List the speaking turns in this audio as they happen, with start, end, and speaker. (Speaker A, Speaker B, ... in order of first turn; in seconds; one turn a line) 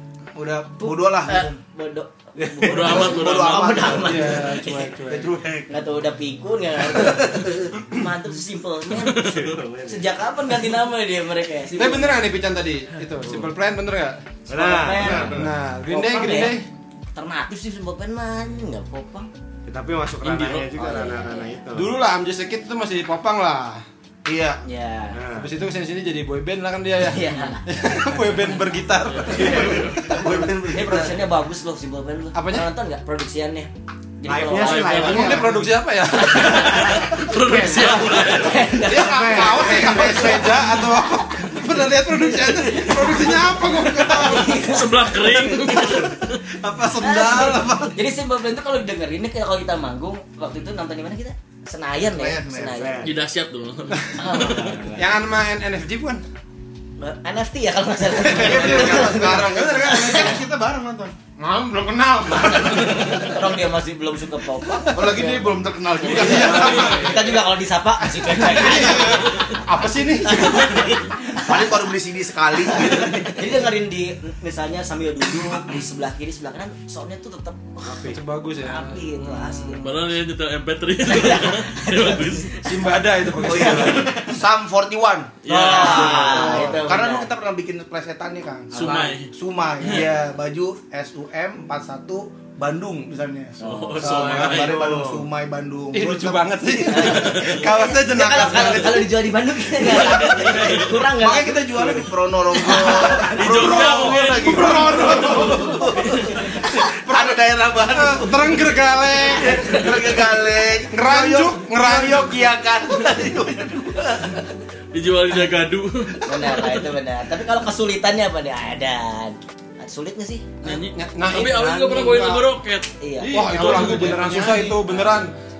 Speaker A: 0.3-1.6
Speaker B: 0.8-4.9
Speaker C: 2.5-2.8
Speaker D: 2.7-3.9
Speaker A: 2.7-4.3
Speaker E: 4.0-5.3
Speaker A: 5.1-5.7
Speaker B: 5.7-12.2
Speaker A: 7.0-7.5
Speaker D: 9.0-9.5
Speaker C: 9.2-10.2
Speaker E: 11.7-14.2
Speaker C: 14.5-15.5
Speaker B: 14.5-16.6
Speaker E: 15.1-16.6
Speaker B: 17.1-19.3
Speaker C: 19.6-21.9
Speaker D: 20.2-20.7
Speaker B: 20.7-21.5
Speaker E: 21.7-23.9
Speaker A: 24.2-24.6
Speaker B: 24.6-25.2
Speaker C: 25.1-25.5
Speaker E: 25.4-29.9
Speaker B: 27.0-27.6
Speaker D: 29.1-30.2
Speaker B: 29.4-35.5
Speaker A: 29.4-31.2
Speaker E: 32.3-32.7
Speaker C: 34.2-35.6
Speaker D: 34.5-35.4
Speaker E: 35.0-36.8
Speaker D: 36.2-38.7
Speaker B: 36.2-37.0
Speaker C: 37.0-38.3
Speaker B: 37.7-41.6
Speaker E: 38.9-44.6
Speaker C: 38.9-39.6
Speaker A: 39.5-40.5
Speaker B: 42.2-46.0
Speaker D: 44.6-46.5
Speaker E: 46.5-48.0
Speaker B: 47.0-53.1
Speaker A: 52.1-52.8
Speaker C: 52.7-53.1
Speaker D: 53.0-54.8
Speaker B: 54.2-54.9
Speaker C: 54.4-55.1
Speaker E: 54.9-56.2
Speaker B: 57.0-60.4
Speaker E: 58.2-60.3
Speaker A: 58.3-61.1
Speaker E: 61.4-63.4
Speaker B: 62.4-69.4
Speaker A: 64.9-67.2
Speaker E: 66.0-67.2
Speaker D: 66.1-67.4
Speaker C: 66.7-67.0
Speaker E: 68.4-70.7
Speaker A: 68.4-68.8
Speaker D: 69.2-69.5
Speaker B: 70.2-71.6
Speaker A: 71.4-73.5
Speaker B: 72.7-79.9
Speaker E: 78.0-79.8
Speaker D: 79.8-82.5
Speaker B: 81.1-82.9
Speaker E: 82.6-84.1
Speaker A: 83.4-97.2
Speaker B: 83.4-84.1
Speaker D: 83.7-84.1
Speaker D: 85.4-86.7
Speaker B: 85.6-87.3
Speaker E: 86.3-86.8
Speaker D: 88.7-90.2
Speaker C: 88.8-89.2
Speaker B: 93.6-94.3
Speaker D: 93.6-94.9
Speaker C: 94.4-95.3
Speaker E: 95.9-99.1
Speaker B: 96.9-103.7
Speaker D: 97.0-97.7
Speaker D: 99.8-100.9
Speaker A: 100.7-114.5
Speaker D: 102.7-105.5
Speaker E: 103.5-105.7
Speaker B: 105.2-106.8
Speaker E: 106.9-109.8
Speaker E: 110.9-112.5
Speaker D: 114.9-116.3
Speaker B: 116.3-120.5
Speaker D: 120.6-124.7
Speaker E: 120.7-122.5
Speaker B: 123.0-125.1
Speaker E: 123.2-125.3
Speaker A: 123.7-124.6